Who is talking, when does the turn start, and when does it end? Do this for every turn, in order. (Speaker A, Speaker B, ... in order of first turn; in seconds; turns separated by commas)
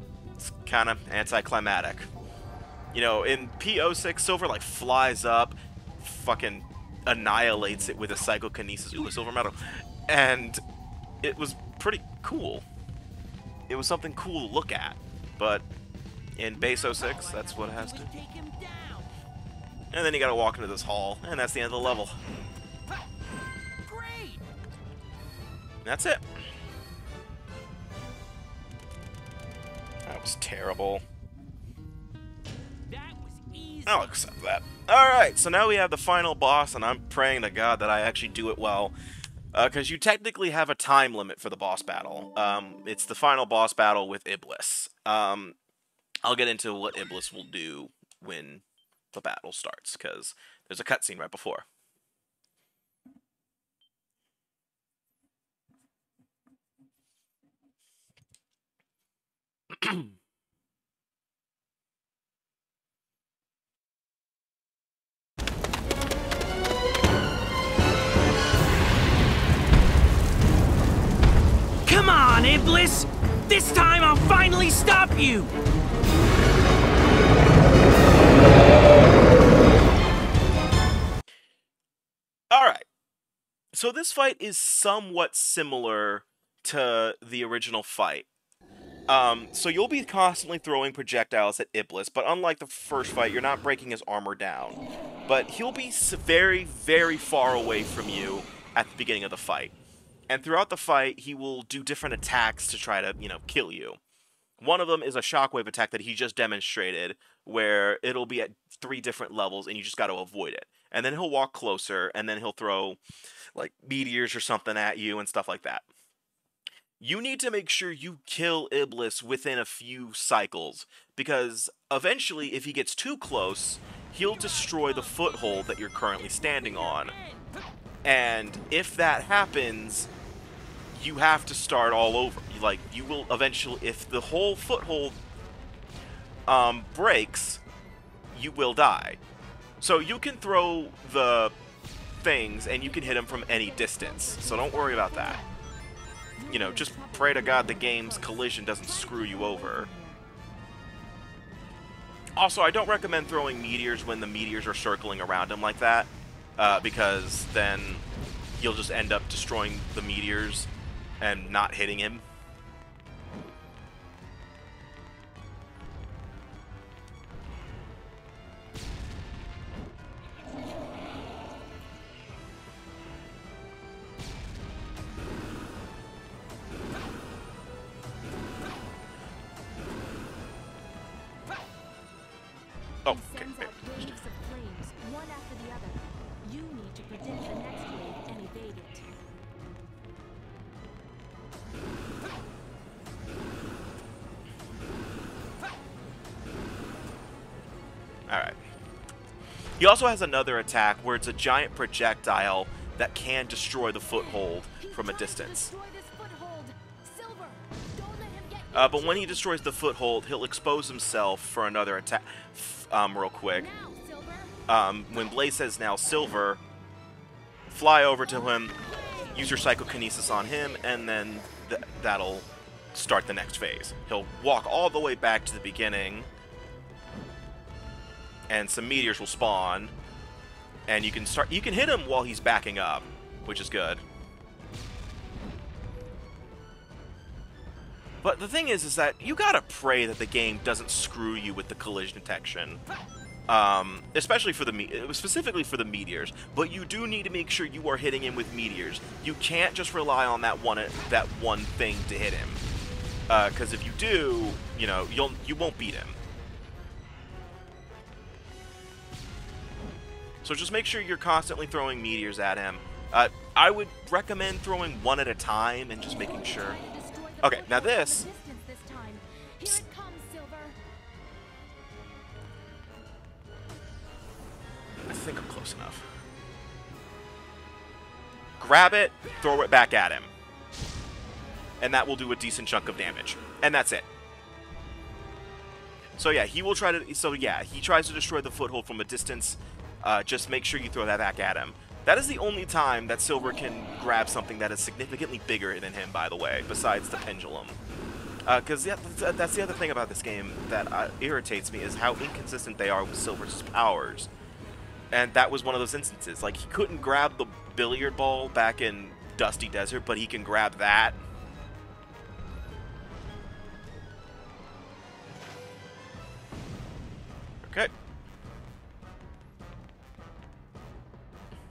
Speaker A: 0.4-2.1, Speaker A: 2.9-10.6, Speaker A: 11.2-12.7, Speaker A: 13.7-15.7, Speaker A: 16.4-18.1, Speaker B: 16.6-19.1, Speaker A: 19.9-22.2, Speaker B: 23.9-24.4, Speaker A: 25.9-26.2, Speaker A: 30.1-31.0, Speaker B: 32.9-34.1, Speaker A: 33.9-39.0, Speaker A: 39.5-45.6, Speaker A: 46.2-51.6, Speaker B: 71.8-75.5, Speaker A: 82.5-82.8, Speaker A: 83.7-88.3, Speaker A: 89.1-99.7, Speaker A: 100.3-104.0, Speaker A: 104.6-113.0, Speaker A: 113.5-115.9, Speaker A: 117.0-127.1, Speaker B: 124.3-127.4, Speaker A: 128.1-130.1, Speaker A: 130.9-135.2, Speaker A: 136.5-137.6, Speaker A: 138.3-139.2, Speaker A: 139.8-141.6, Speaker A: 142.2-145.4, Speaker C: 142.8-145.6, Speaker C: 146.4-150.2, Speaker A: 146.5-149.9, Speaker A: 152.4-158.0, Speaker A: 158.6-160.7, Speaker A: 161.2-162.2, Speaker A: 183.1-184.1, Speaker C: 183.1-189.1, Speaker A: 198.3-198.6, Speaker A: 199.8-205.7, Speaker C: 204.1-209.5, Speaker A: 208.7-213.7, Speaker C: 213.5-214.5, Speaker A: 214.7-216.6, Speaker A: 217.7-218.8, Speaker A: 219.3-226.3, Speaker A: 228.5-229.9, Speaker A: 230.9-234.0, Speaker A: 238.2-242.8, Speaker A: 243.5-252.6, Speaker A: 253.3-256.2, Speaker A: 260.4-266.8, Speaker C: 266.0-270.8, Speaker A: 267.4-268.3, Speaker A: 275.1-276.0, Speaker A: 278.6-280.3, Speaker A: 281.8-284.1, Speaker A: 286.2-297.8, Speaker A: 298.5-304.3, Speaker A: 305.1-311.2, Speaker A: 317.7-317.9